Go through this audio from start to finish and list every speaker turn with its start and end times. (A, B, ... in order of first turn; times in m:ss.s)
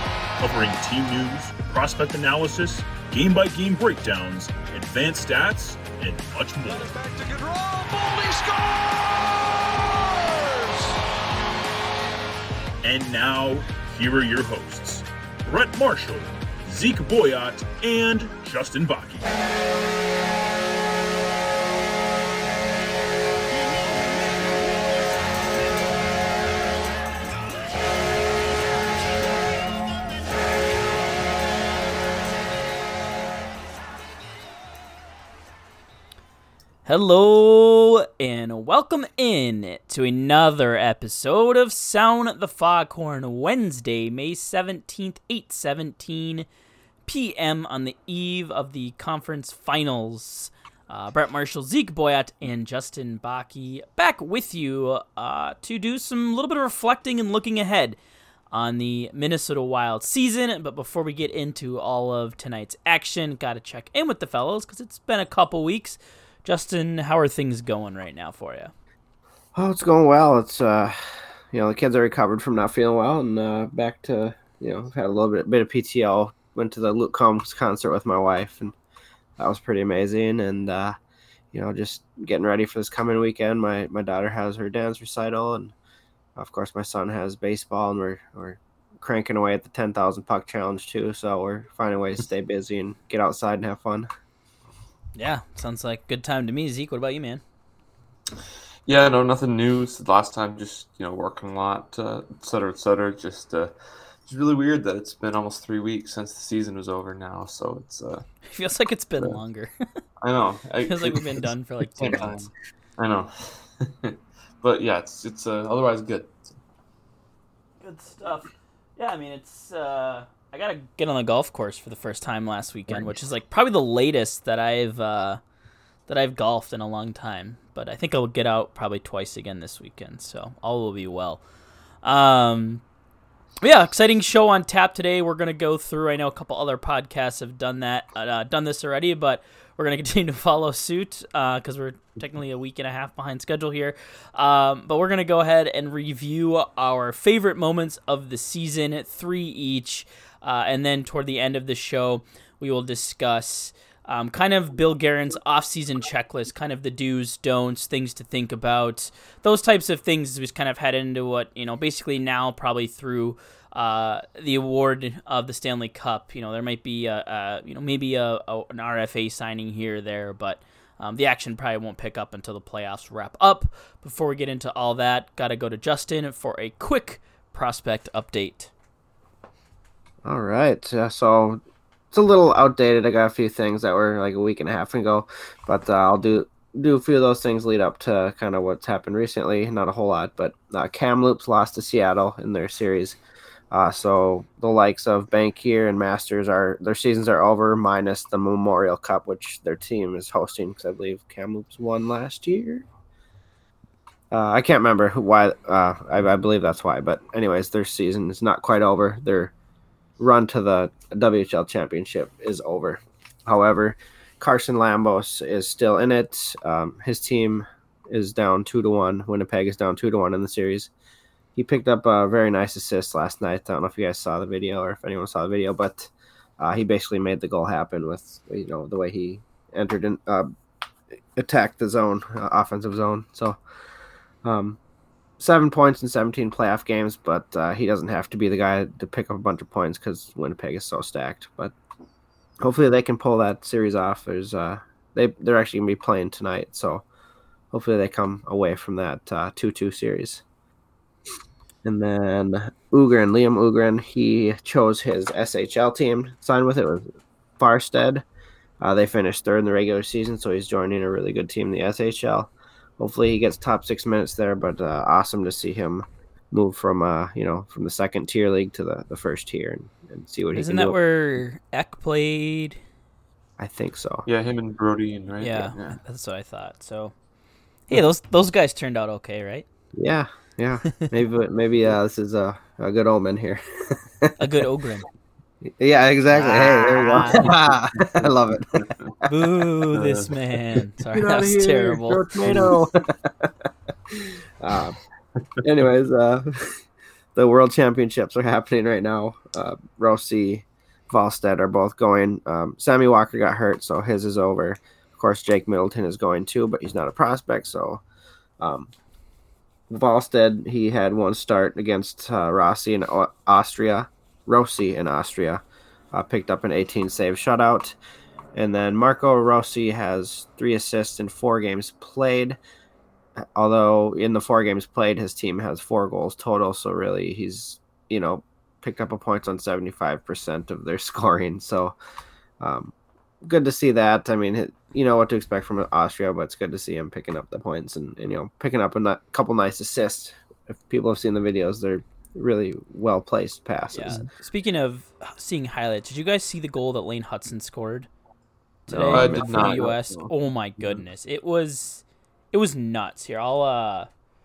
0:00.4-0:06.9 A
0:06.6-0:11.0 B
0:12.8-0:19.3 A
0:36.8-0:46.5 C
0:47.0-0:58.0 C
0:58.5-1:08.7 C
1:09.5-1:18.7 D
1:19.4-1:21.0 D
1:21.5-1:25.7 D
1:26.4-1:34.1 D
1:35.1-1:37.4 C
1:38.9-1:43.7 E
1:44.2-1:48.2 E
1:48.5-1:49.9 C
1:50.2-1:56.6 E
1:50.8-1:52.5 C
1:57.8-2:05.4 C
2:06.1-2:11.4 C
2:12.0-2:12.8 C
2:13.6-2:58.7 C
3:00.2-3:01.6 D
3:02.1-3:13.2 D
3:13.7-3:22.8 D
3:24.3-3:29.5 D
3:30.2-3:40.9 D
3:41.5-3:50.5 D
3:51.4-3:53.6 D
3:54.4-3:54.8 D
3:55.4-4:01.7 D
4:02.6-4:07.0 D
4:07.7-4:10.4 D
4:11.8-4:17.0 D
4:17.6-4:18.2 D
4:18.8-4:31.0 D
4:30.5-4:32.8 C
4:33.6-4:34.2 D
4:34.2-4:36.0 E
4:35.4-4:37.1 C
4:37.9-4:39.6 C
4:39.9-4:44.4 D
4:44.4-4:45.1 C
4:45.6-4:48.9 D
4:46.3-4:47.5 C
4:48.8-4:49.1 E
4:49.2-4:52.3 C
4:49.9-4:50.3 E
4:51.1-4:55.0 D
4:52.5-4:52.8 E
4:55.6-4:56.8 D
4:57.3-5:08.0 D
5:08.6-5:08.9 D
5:09.9-5:18.0 D
5:18.5-5:22.6 D
5:23.4-5:31.9 D
5:32.6-5:44.2 D
5:43.9-5:48.1 C
5:48.9-5:54.1 C
5:48.9-5:49.9 D
5:49.1-5:50.3 E